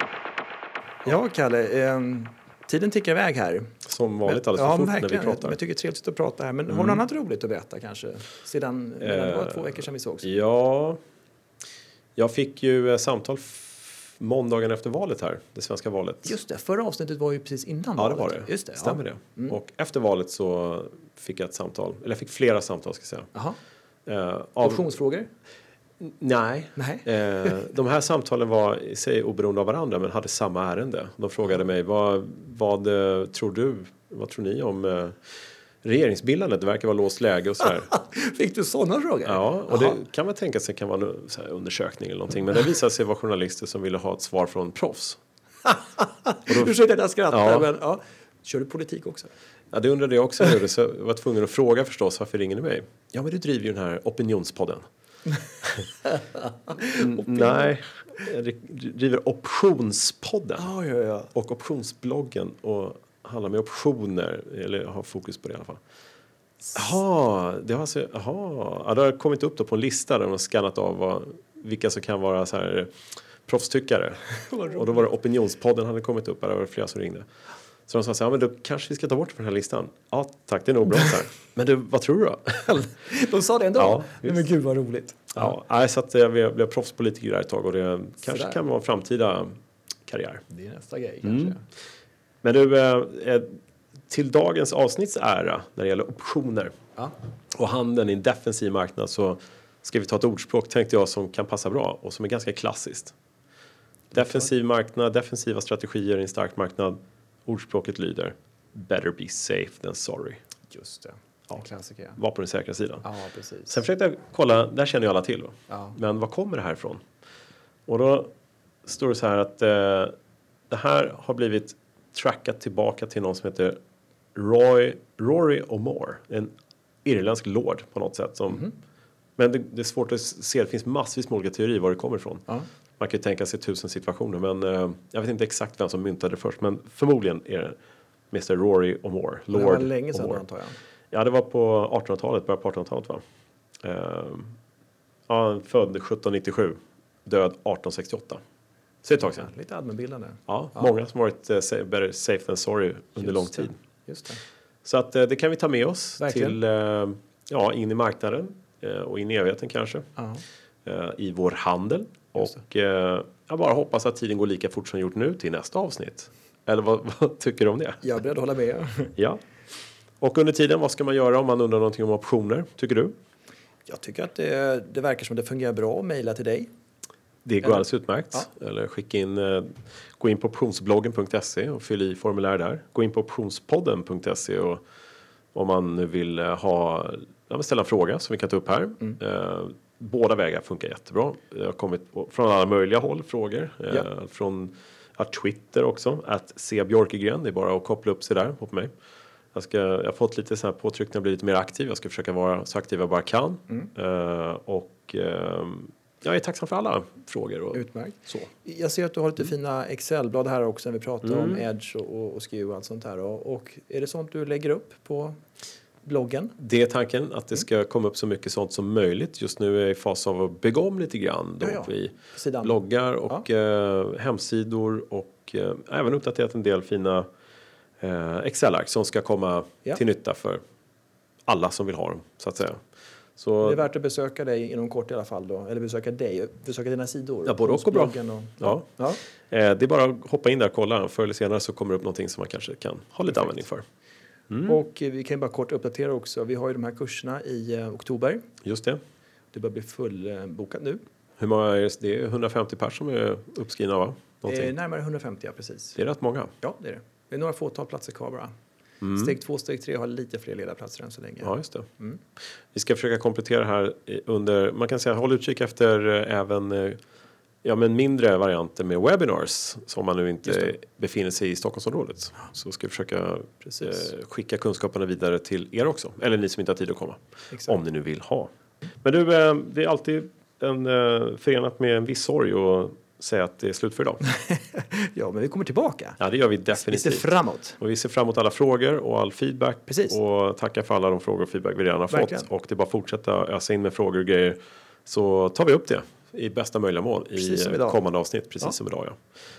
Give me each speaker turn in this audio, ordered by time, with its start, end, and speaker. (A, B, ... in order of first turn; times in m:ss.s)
0:01.0-0:10.3 A
0:03.8-0:05.6 B
0:06.7-0:07.0 B
0:09.0-0:11.0 B
0:12.2-0:16.4 B
0:16.2-0:19.6 A
0:18.0-0:23.3 B
0:24.1-0:24.9 B
0:24.6-0:25.3 A
0:26.0-0:37.9 B
0:26.8-0:27.6 A
0:37.9-0:40.0 A
0:39.2-0:45.2 B
0:45.7-0:49.3 A
0:46.5-0:46.7 B
0:47.3-0:47.7 B
0:49.7-0:54.8 B
0:55.6-0:55.9 B
0:56.1-0:57.7 A
0:56.9-1:00.7 B
1:00.6-1:01.3 A
1:01.3-1:05.8 B
1:06.7-1:12.9 B
1:13.5-1:17.3 B
1:14.4-1:15.1 A
1:17.9-1:22.8 B
1:22.6-1:25.5 A
1:23.8-1:24.4 B
1:25.3-1:30.4 B
1:28.3-1:28.6 A
1:30.5-1:31.6 A
1:31.2-1:31.6 B
1:32.4-1:36.8 B
1:37.5-1:43.2 B
1:44.1-1:50.4 B
1:44.2-1:44.5 A
1:50.7-1:52.2 A
1:52.2-1:53.0 B
1:53.0-1:53.8 A
1:53.7-1:57.0 B
1:55.7-1:56.0 A
1:57.9-1:58.3 B
1:58.8-2:00.1 B
2:00.7-2:03.8 B
2:04.4-2:06.5 B
2:07.0-2:08.7 B
2:09.4-2:12.4 B
2:13.0-2:17.8 B
2:18.3-2:20.4 B
2:19.5-2:20.8 A
2:21.1-2:23.2 B
2:23.8-2:24.6 B
2:25.3-2:28.4 B
2:29.0-2:29.4 B
2:29.2-2:30.9 A
2:30.5-2:33.8 B
2:33.2-2:34.4 A
2:34.8-2:40.1 B
2:36.2-2:36.6 A
2:40.2-2:40.4 A
2:40.8-2:48.0 B
2:48.0-2:49.1 A
2:50.2-2:53.2 B
2:53.9-2:56.7 A
2:57.4-3:04.8 B
2:57.6-2:58.5 A
3:05.5-3:18.9 B
3:19.5-3:27.8 B
3:27.7-3:35.4 A
3:31.2-3:31.6 B
3:36.0-3:36.6 A
3:36.6-3:47.3 B
3:41.6-3:43.4 A
3:48.0-3:50.6 B
3:51.5-3:52.8 B
3:53.4-3:53.8 B
3:53.6-3:59.2 A
3:57.4-3:58.9 B
3:59.5-4:03.8 B
4:04.5-4:04.8 B
4:04.6-4:08.5 A
4:08.6-4:09.0 B
4:09.5-4:11.0 A
4:11.4-4:14.7 B
4:14.4-4:16.0 A
4:16.0-4:16.5 B
4:16.6-4:18.5 A
4:19.0-4:19.3 B
4:19.1-4:22.2 A
4:21.4-4:21.9 B
4:22.7-4:27.0 B
4:27.6-4:38.5 B
4:33.7-4:34.0 A
4:37.5-4:37.8 A
4:39.0-4:44.2 B
4:44.3-4:46.2 A
4:46.2-4:59.2 B
4:46.7-4:47.8 A
4:49.9-4:50.2 A
4:52.1-4:52.5 A
4:57.4-4:58.0 A